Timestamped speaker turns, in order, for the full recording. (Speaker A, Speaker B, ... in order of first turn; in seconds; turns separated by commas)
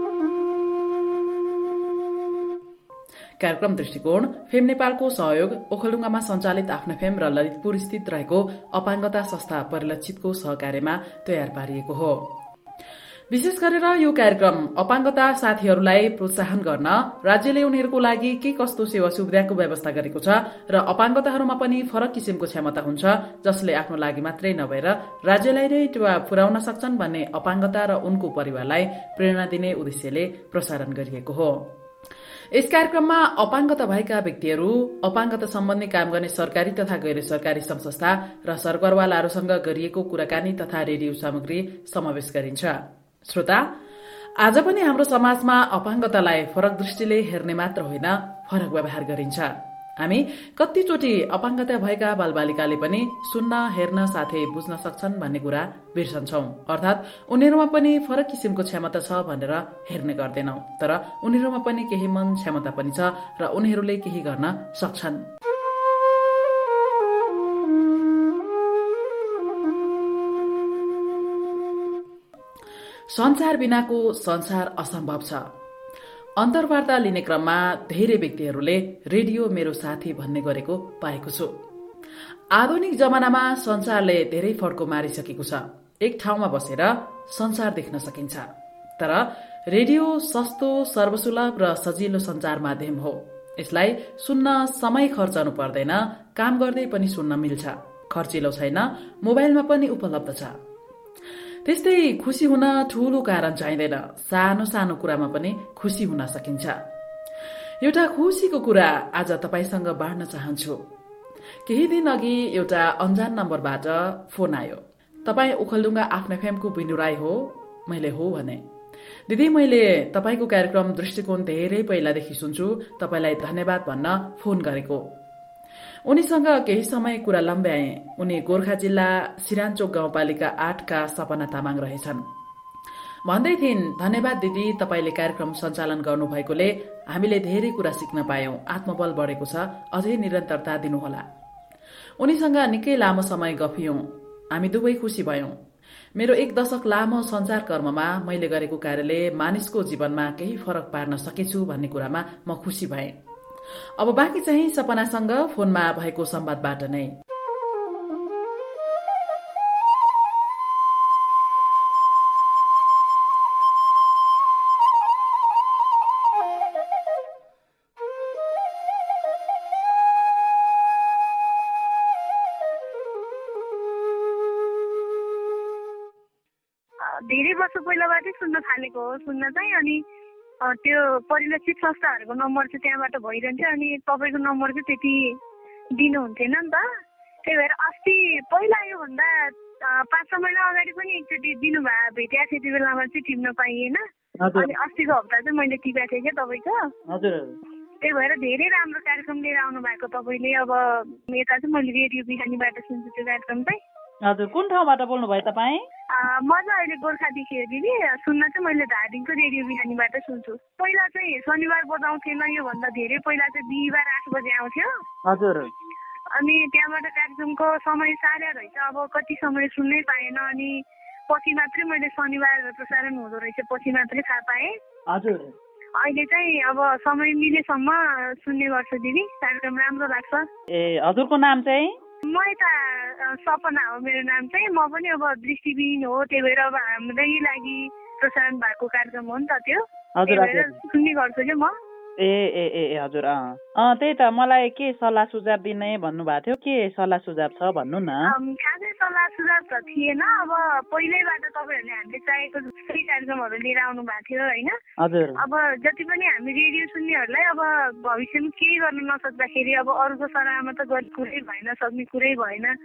Speaker A: 3.4-12.3, Speaker A: 13.3-31.7, Speaker A: 32.5-43.7, Speaker A: 44.4-65.3, Speaker A: 73.1-75.4, Speaker A: 76.4-81.5, Speaker A: 82.5-88.5, Speaker A: 89.0-100.5, Speaker A: 101.7-106.8, Speaker A: 107.8-110.8, Speaker A: 111.7-118.6, Speaker A: 119.3-125.1, Speaker A: 126.1-132.2, Speaker A: 133.3-141.2, Speaker A: 142.2-145.6, Speaker A: 146.2-153.2, Speaker A: 154.0-157.1, Speaker B: 177.0-180.0, Speaker B: 180.6-185.4, Speaker B: 186.0-186.9, Speaker B: 187.4-194.0, Speaker C: 194.4-194.7, Speaker B: 194.6-196.9, Speaker C: 197.1-197.6, Speaker B: 198.0-203.8, Speaker C: 204.2-205.8, Speaker B: 206.1-215.0, Speaker C: 215.3-215.7, Speaker B: 216.3-224.8, Speaker C: 225.1-225.5, Speaker B: 226.0-230.5, Speaker C: 230.7-232.0, Speaker B: 232.2-241.8, Speaker C: 240.2-240.8, Speaker C: 242.2-248.2, Speaker B: 248.2-254.8, Speaker C: 255.0-255.4, Speaker B: 255.4-262.8